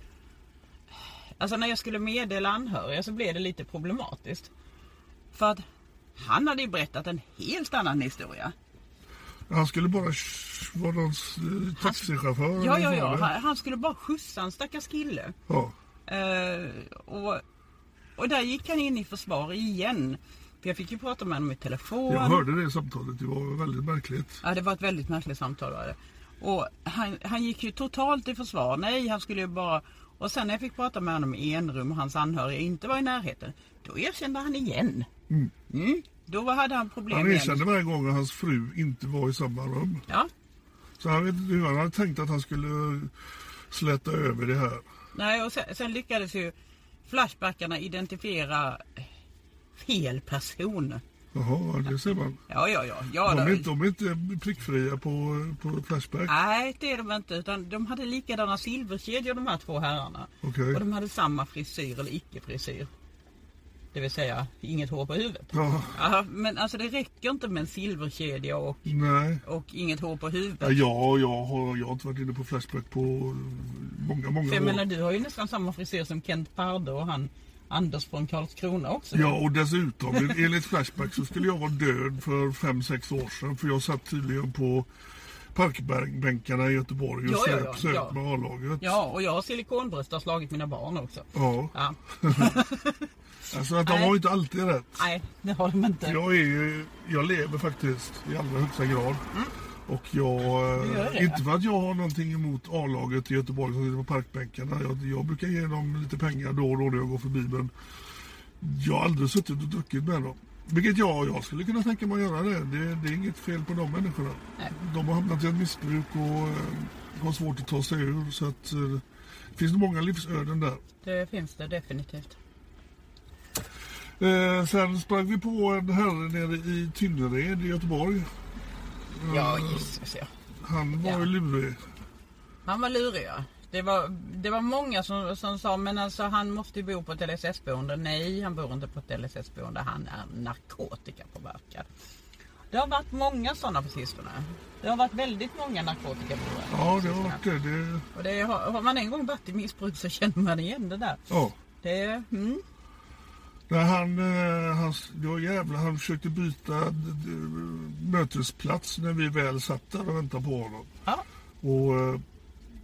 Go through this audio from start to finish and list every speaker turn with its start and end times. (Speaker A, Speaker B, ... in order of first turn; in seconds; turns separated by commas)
Speaker A: 1.4-4.5, Speaker A: 5.3-5.6, Speaker A: 6.2-8.5, Speaker B: 9.5-13.3, Speaker A: 11.8-15.4, Speaker B: 15.5-15.8, Speaker A: 16.1-17.4, Speaker A: 18.2-22.4, Speaker B: 22.1-24.4, Speaker A: 24.4-35.1, Speaker A: 35.7-37.7, Speaker B: 37.1-40.0, Speaker B: 41.0-43.1, Speaker B: 43.7-44.9, Speaker A: 45.1-46.5, Speaker A: 47.0-49.1, Speaker A: 49.8-51.0, Speaker B: 51.3-52.4, Speaker A: 52.5-53.7, Speaker B: 53.2-56.3, Speaker A: 56.3-62.9, Speaker B: 60.4-60.8, Speaker A: 63.9-68.9, Speaker B: 65.5-66.0, Speaker B: 68.9-69.4, Speaker A: 69.4-70.8, Speaker B: 70.6-74.8, Speaker A: 74.4-79.4, Speaker B: 79.1-84.9, Speaker A: 80.1-80.5, Speaker B: 85.5-89.0, Speaker A: 87.2-88.2, Speaker A: 88.8-93.0, Speaker B: 91.3-92.5, Speaker B: 93.5-95.0, Speaker A: 93.8-94.2, Speaker A: 95.0-96.2, Speaker B: 96.0-99.2, Speaker B: 99.9-107.7, Speaker A: 100.7-101.4, Speaker B: 108.6-119.0, Speaker B: 119.6-120.8, Speaker A: 121.0-122.4, Speaker B: 124.2-128.3, Speaker B: 129.1-129.9, Speaker A: 129.3-130.3, Speaker B: 130.6-131.8, Speaker A: 131.0-131.3, Speaker A: 132.7-141.9, Speaker A: 142.7-147.4, Speaker B: 146.7-148.1, Speaker A: 148.2-151.2, Speaker B: 151.3-151.6, Speaker A: 151.8-152.6, Speaker B: 153.7-160.9, Speaker B: 161.6-162.2